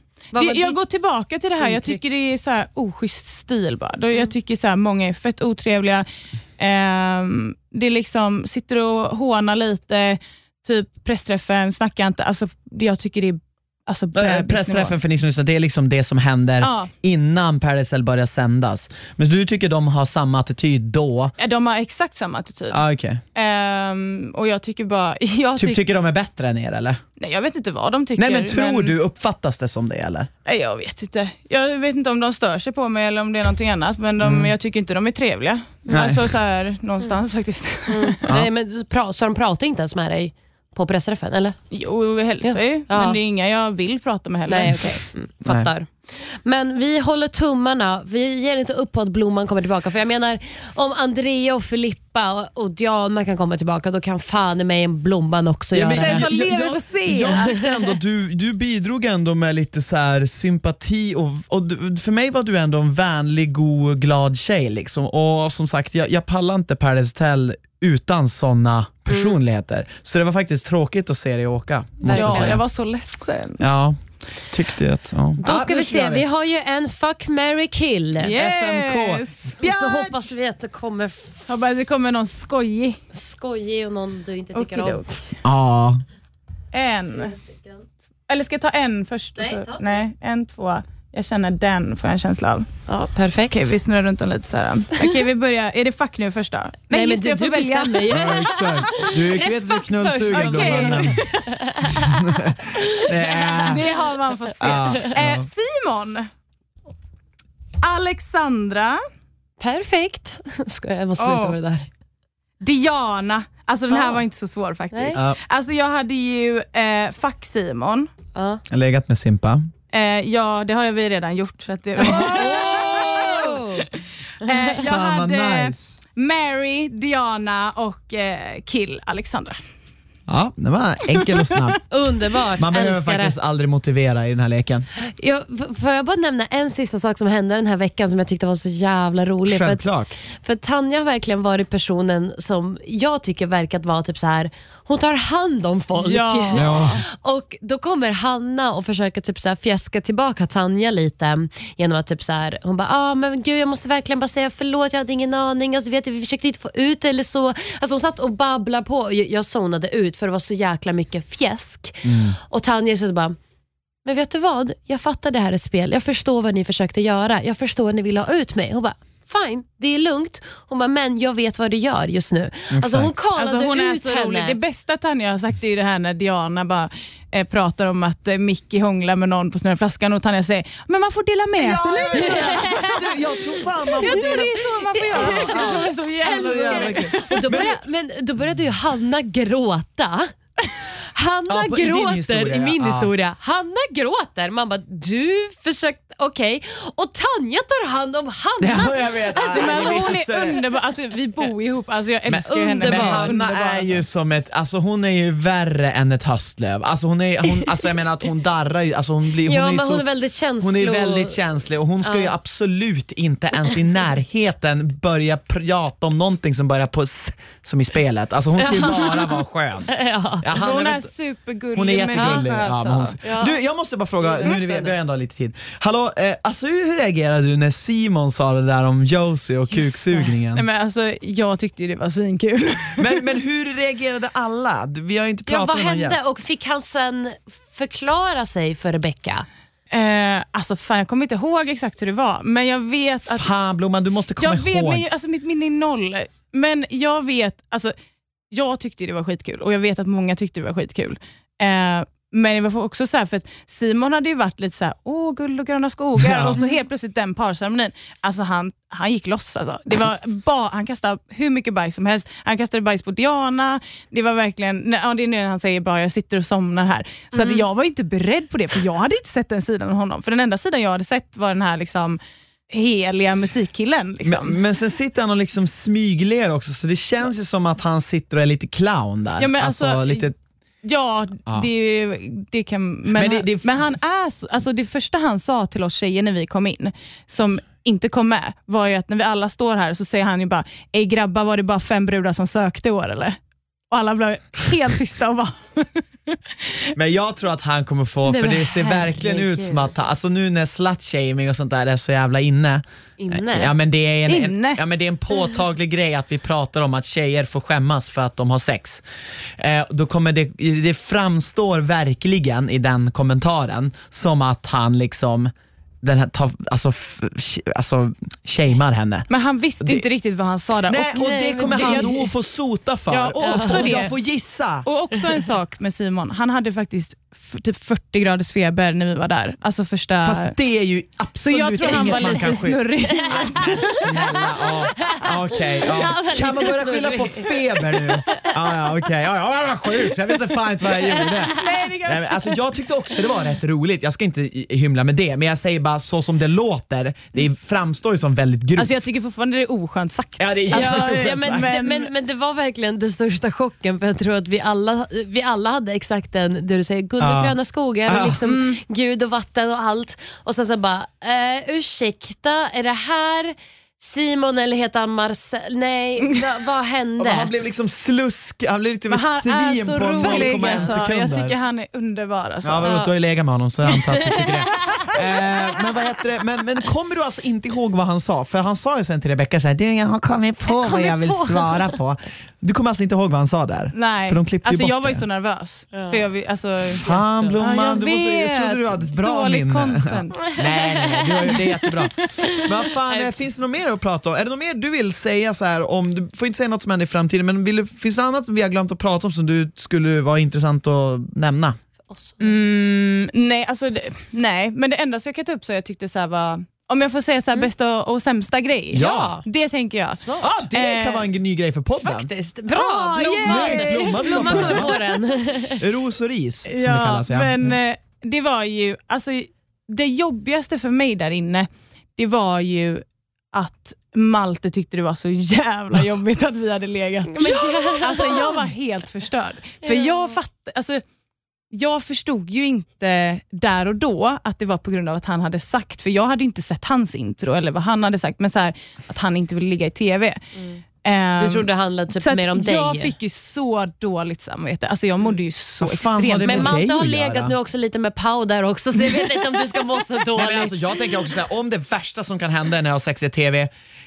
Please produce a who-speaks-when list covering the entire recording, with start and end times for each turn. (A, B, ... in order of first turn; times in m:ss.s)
0:00.3-0:00.8 A
0:00.3-0:06.0 B
0:01.6-0:02.0 A
0:06.6-0:14.9 B
0:14.1-0:21.3 C
0:16.6-0:16.9 B
0:21.4-0:22.8 B
0:22.7-0:23.2 C
0:23.3-0:25.8 B
0:25.6-0:27.0 C
0:27.2-0:28.9 B
0:28.2-0:30.3 C
0:30.4-0:38.2 B
0:34.2-0:34.5 C
0:35.9-0:36.2 C
0:37.9-0:41.6 A
0:41.7-0:45.0 B
0:42.4-0:43.2 A
0:44.5-0:56.3 A
0:55.7-1:12.6 C
0:55.9-0:57.6 B
0:57.3-0:57.7 A
1:09.1-1:09.4 A
1:12.0-1:12.6 A
1:12.1-1:13.6 B
1:13.6-1:16.2 C
1:15.4-1:18.3 A
1:18.2-1:19.6 B
1:18.3-1:20.3 C
1:19.6-1:21.5 A
1:21.5-1:23.0 B
1:23.1-1:25.0 A
1:24.5-1:25.1 B
1:25.4-1:26.0 C
1:26.7-1:27.3 B
1:27.1-1:27.8 A
1:28.3-1:32.7 B
1:29.4-1:30.0 A
1:32.9-1:33.7 A
1:33.5-1:38.4 B
1:36.9-1:43.8 A
1:38.1-1:41.2 C
1:40.3-1:41.8 B
1:41.9-1:43.8 C
1:43.5-1:46.3 B
1:44.6-1:45.5 C
1:44.6-1:45.0 A
1:47.8-1:49.0 B
1:49.6-1:51.9 A
1:51.2-1:51.5 B
1:52.6-1:58.1 B
1:53.9-1:54.2 A
1:54.9-1:55.2 A
1:58.3-1:58.6 A
1:58.7-1:59.7 C
1:59.9-2:09.6 B
2:02.0-2:03.6 C
2:02.0-2:03.9 A
2:04.4-2:04.8 A
2:04.8-2:06.0 C
2:10.3-2:11.8 C
2:11.2-2:11.6 B
2:11.9-2:13.3 A
2:12.6-2:14.9 C
2:15.0-2:43.4 A
2:19.4-2:20.1 C
2:26.0-2:26.8 B
2:26.5-2:27.0 C
2:42.0-2:42.4 C
2:44.0-2:54.6 A
2:52.7-2:53.1 C
2:53.4-3:03.0 B
3:01.6-3:07.8 C
3:02.1-3:02.7 A
3:03.6-3:07.5 B
3:03.9-3:10.3 A
3:11.1-3:20.2 A
3:11.5-3:13.1 C
3:18.6-3:20.6 C
3:19.5-3:24.0 B
3:22.3-3:30.0 C
3:22.5-3:23.4 A
3:27.5-3:27.9 A
3:29.4-3:31.4 A
3:30.6-3:41.1 C
3:32.0-3:32.3 A
3:38.6-3:40.5 A
3:40.5-3:43.2 B
3:41.7-3:50.6 C
3:42.1-3:42.4 A
3:43.2-3:43.6 A
3:44.2-3:44.9 A
3:49.7-3:50.3 A
3:50.5-3:53.2 B
3:53.0-3:56.3 C
3:55.4-3:59.4 A
3:59.9-4:03.5 B
4:03.3-4:05.0 C
4:04.4-4:07.9 B
4:08.5-4:34.6 B
4:16.2-4:16.6 C
4:27.3-4:27.6 A
4:34.2-4:40.4 C
4:39.4-4:40.3 B
4:40.8-4:53.4 B
4:43.1-4:43.9 C
4:53.9-4:56.9 B
4:57.0-5:09.0 C
4:58.3-4:59.9 A
5:03.2-5:03.7 A
5:04.3-5:04.8 B
5:09.6-5:19.3 C
5:19.3-5:22.1 B
5:20.9-5:24.8 C
5:21.1-5:22.2 A
5:23.1-5:24.1 B
5:23.4-5:23.9 A
5:24.8-5:30.5 B
5:30.2-5:49.0 C
5:31.4-5:33.9 B
5:33.2-5:38.9 A
5:40.3-5:41.7 A
5:41.5-5:42.6 B
5:48.8-5:52.1 B
5:50.4-5:51.7 C
5:50.7-6:07.5 A
5:57.2-5:57.6 C
5:58.1-5:58.4 C
5:58.4-5:58.8 B
6:07.2-6:11.5 C
6:09.1-6:12.9 B
6:10.1-6:11.0 A
6:12.6-6:25.2 C
6:12.8-6:13.1 A
6:14.1-6:15.5 A
6:20.6-6:22.0 A
6:23.9-6:27.0 B
6:25.9-6:26.2 A
6:26.9-6:41.8 C
6:27.0-6:27.6 A
6:27.6-6:30.6 B
6:30.5-6:31.6 A
6:32.4-6:33.4 A
6:42.1-6:42.6 A
6:42.4-6:51.2 B
6:48.9-6:49.4 C
6:48.9-6:49.4 A
6:50.2-6:50.4 A
6:50.4-6:52.3 C
6:52.0-6:55.8 A
6:52.7-6:55.1 B
6:53.2-6:54.9 C
6:55.8-6:57.8 C
6:56.6-7:11.0 B
7:07.3-7:08.6 A
7:09.8-7:10.4 A
7:11.7-7:20.5 B
7:20.6-7:20.8 A
7:21.0-7:26.8 B
7:21.4-7:23.1 A
7:25.8-7:27.5 C
7:26.4-7:30.8 A
7:30.3-7:33.7 C